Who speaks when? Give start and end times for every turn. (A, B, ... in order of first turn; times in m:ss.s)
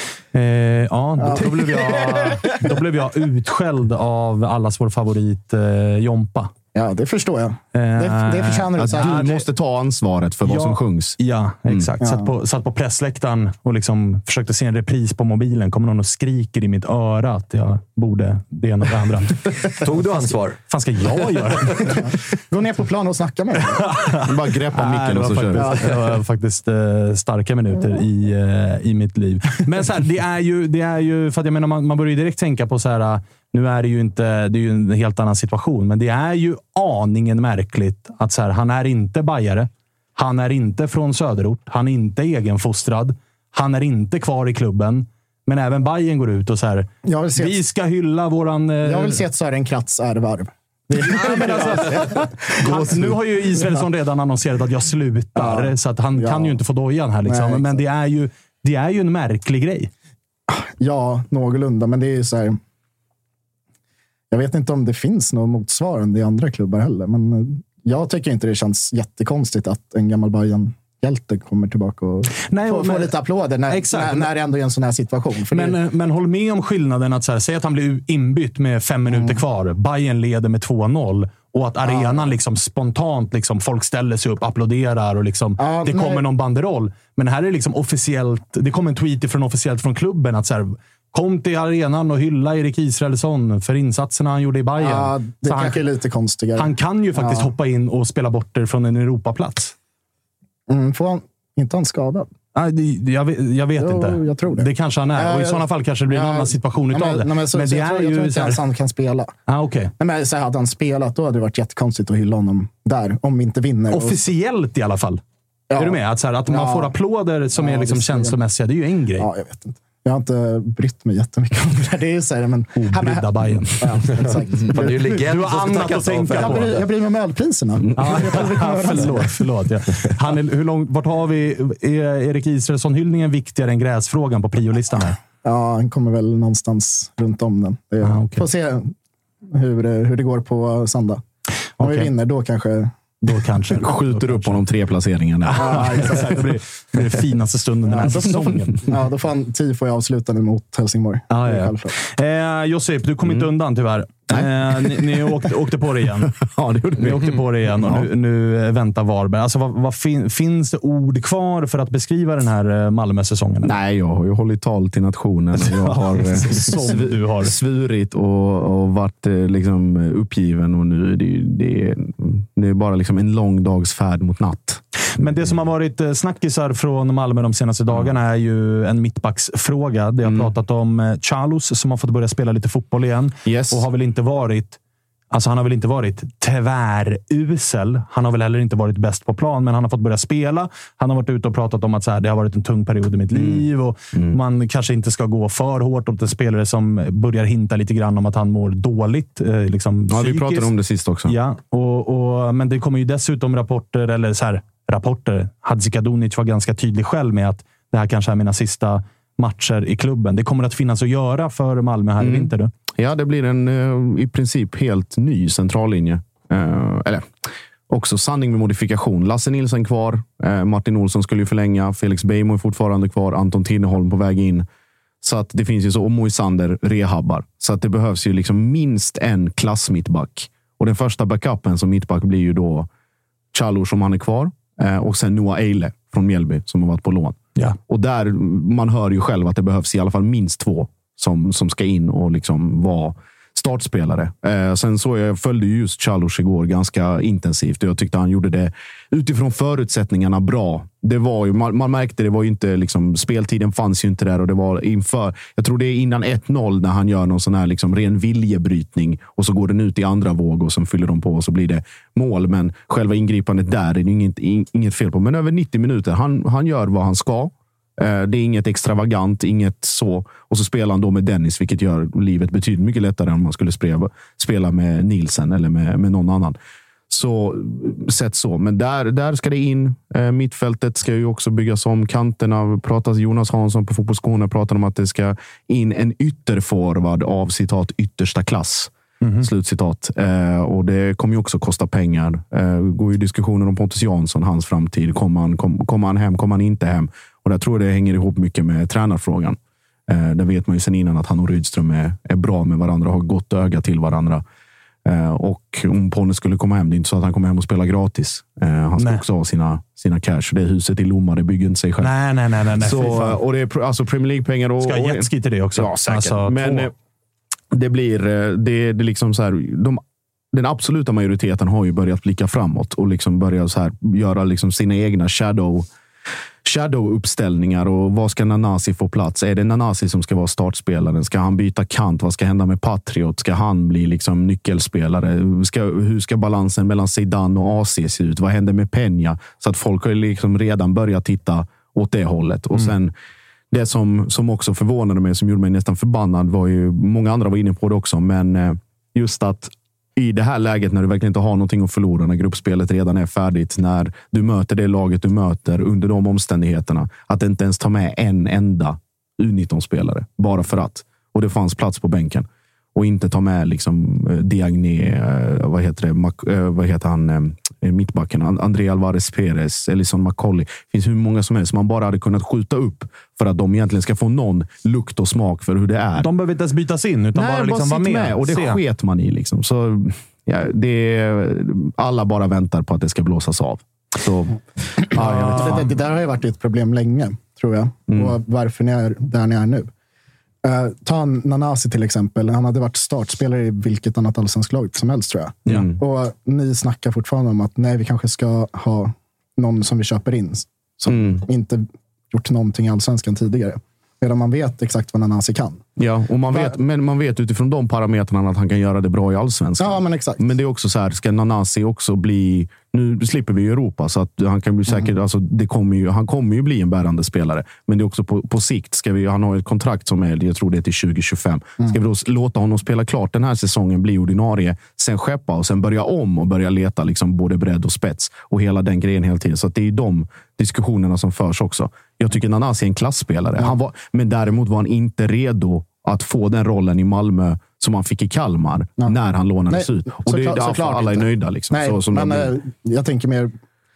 0:00.3-0:06.5 A
0:01.2-0:02.6 B
0:06.7-0:09.4 B
0:07.7-0:09.4 A
0:08.8-0:11.2 C
0:10.4-0:19.8 A
0:12.0-0:12.3 B
0:19.8-0:20.6 D
0:20.7-0:22.2 A
0:21.8-0:23.9 B
0:23.7-0:49.2 A
0:24.3-0:25.8 C
0:25.5-0:26.0 B
0:47.0-0:47.6 B
0:48.8-0:53.8 B
0:50.9-0:59.9 A
0:55.4-0:56.6 B
0:57.2-0:57.8 B
1:00.5-1:02.6 B
1:04.3-1:15.8 B
1:12.4-1:14.3 A
1:15.5-1:35.8 A
1:19.1-1:19.4 B
1:21.8-1:22.3 B
1:25.6-1:26.2 B
1:34.8-1:37.5 B
1:36.6-1:39.7 A
1:40.7-1:42.3 B
1:42.5-1:48.6 A
1:43.8-1:49.3 B
1:49.5-1:49.9 A
1:50.0-1:54.2 B
1:53.9-1:55.2 A
1:55.7-1:56.9 B
1:55.8-1:59.3 A
1:57.5-1:58.4 B
1:59.2-2:05.2 B
2:02.8-2:04.2 A
2:04.7-2:06.8 D
2:05.2-2:06.8 A
2:06.3-2:09.4 B
2:07.8-2:08.9 C
2:08.0-2:15.2 A
2:15.4-2:18.9 B
2:18.0-2:18.4 A
2:19.5-2:21.2 B
2:21.8-2:22.1 A
2:21.8-2:22.9 B
2:23.2-2:24.6 A
2:23.7-2:26.4 C
2:25.4-2:28.9 A
2:25.6-2:26.3 B
2:27.9-2:31.9 B
2:28.3-2:28.6 C
2:31.3-2:36.4 A
2:33.2-2:33.5 C
2:34.3-2:35.5 C
2:36.4-2:38.1 C
2:37.0-2:43.8 A
2:43.6-2:54.8 C
2:45.6-2:47.5 A
2:55.2-3:04.8 A
2:57.9-2:58.2 C
3:00.2-3:00.5 C
3:03.4-3:03.8 C
3:05.3-3:20.7 A
3:13.3-3:14.4 C
3:20.1-3:21.3 C
3:21.2-3:32.7 A
3:32.2-3:37.3 C
3:37.9-3:44.6 C
3:45.2-3:52.9 C
3:53.5-4:36.6 C
4:37.1-4:59.6 C
4:49.2-4:49.5 A
5:00.1-5:04.4 C
5:05.0-5:12.1 C
5:09.0-5:09.2 A
5:12.0-5:13.4 A
5:12.8-5:16.9 C
5:14.8-5:16.9 A
5:17.7-5:20.0 C
5:20.5-5:25.8 C
5:26.6-5:43.1 C
5:43.7-6:16.3 C
6:16.2-6:18.8 A
6:17.3-6:25.9 C
6:25.1-6:25.9 A
6:25.6-6:29.9 B
6:28.1-6:28.4 C
6:30.6-6:45.8 B
6:35.6-6:36.0 C
6:41.1-6:41.4 C
6:46.0-7:22.6 C
6:49.8-6:50.4 B
7:19.7-7:23.5 B